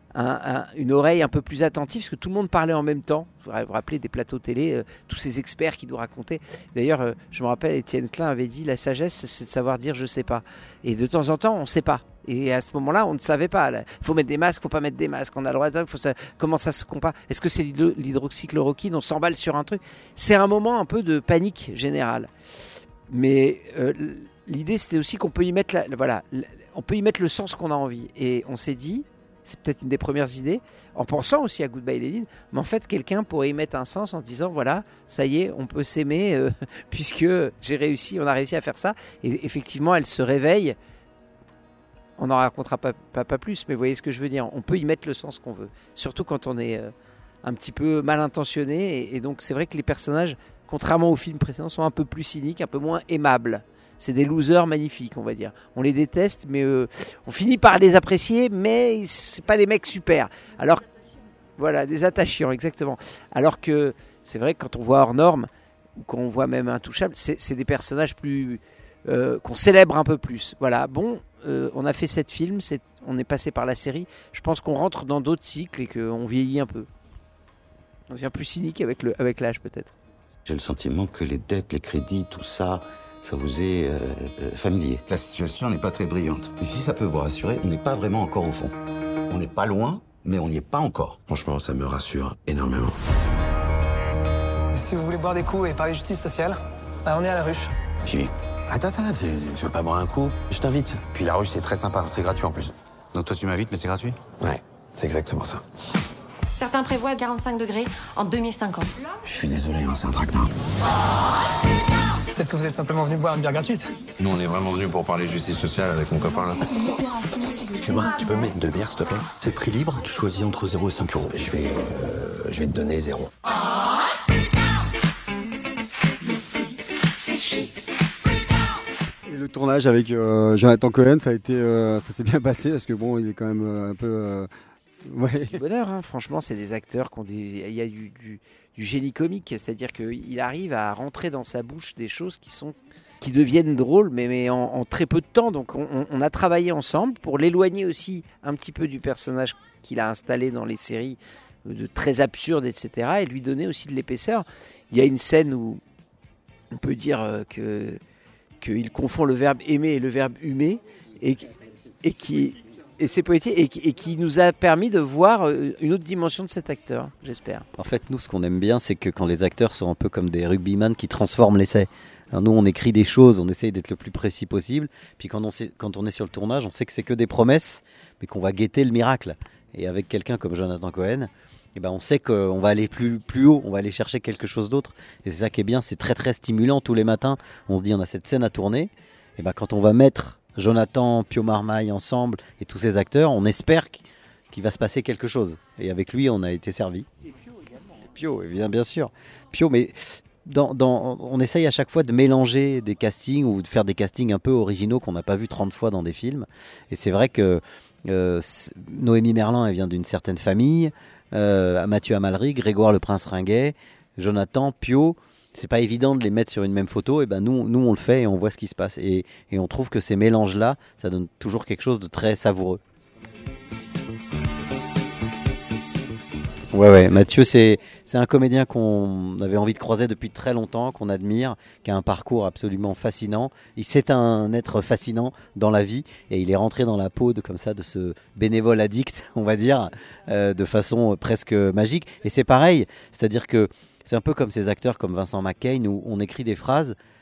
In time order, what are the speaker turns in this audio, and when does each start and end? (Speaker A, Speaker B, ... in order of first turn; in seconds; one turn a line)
Speaker A: 0.1-22.3
Speaker A: 23.1-40.8
Speaker A: 42.2-46.9
Speaker A: 47.4-60.9
Speaker A: 61.6-76.9
Speaker A: 78.1-79.9
Speaker B: 80.5-88.8
Speaker B: 89.3-91.2
Speaker C: 91.3-93.0
Speaker D: 94.7-97.7
Speaker C: 98.1-105.6
Speaker E: 106.6-109.1
Speaker C: 109.3-110.5
Speaker D: 112.3-114.0
Speaker C: 114.2-117.2
Speaker E: 117.2-117.6
Speaker C: 117.7-119.3
Speaker B: 119.4-121.4
Speaker C: 121.3-123.3
Speaker F: 129.3-134.5
Speaker F: 135.1-135.6
Speaker A: 135.3-155.8
Speaker A: 156.7-158.0
Speaker A: 158.6-161.5
Speaker A: 162.0-167.7
Speaker G: 167.8-197.1
Speaker A: 197.2-198.1
Speaker G: 198.1-222.8
Speaker G: 226.7-247.0